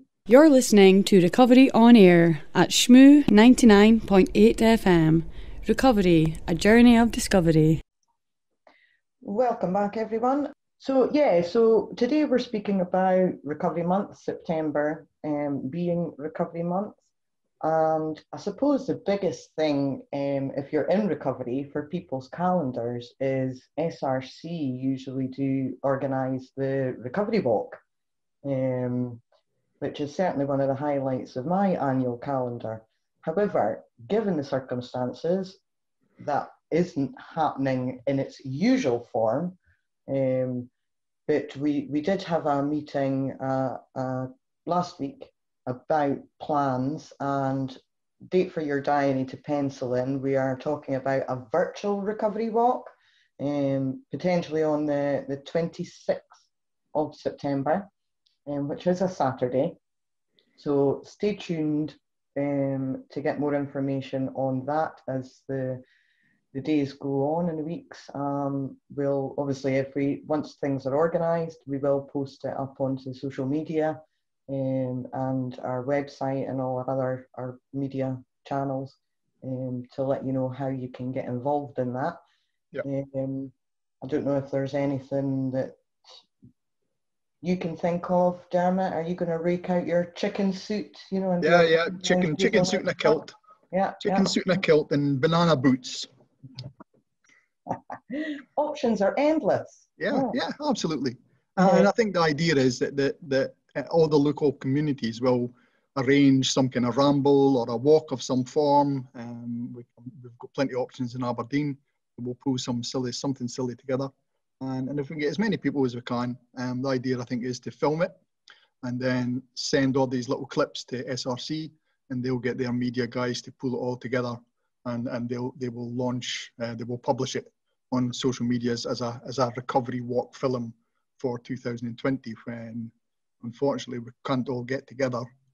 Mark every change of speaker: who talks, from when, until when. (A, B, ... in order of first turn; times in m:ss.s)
0:00.3-0:07.8 A
0:09.2-0:17.0 B
0:17.6-0:27.8 B
0:28.4-0:29.2 B
0:29.8-0:35.6 B
0:36.2-0:39.6 B
0:40.1-0:40.7 B
0:41.3-0:56.4 B
0:56.9-0:57.9 B
0:58.4-0:59.8 B
1:00.6-1:05.8 B
1:06.5-1:22.2 B
1:22.8-1:25.7 B
1:27.4-1:34.3 B
1:31.4-1:33.3 C
1:34.0-1:36.1 C
1:38.1-1:40.4 B
1:40.0-1:58.2 C
1:41.6-1:41.9 B
1:58.8-2:15.3 C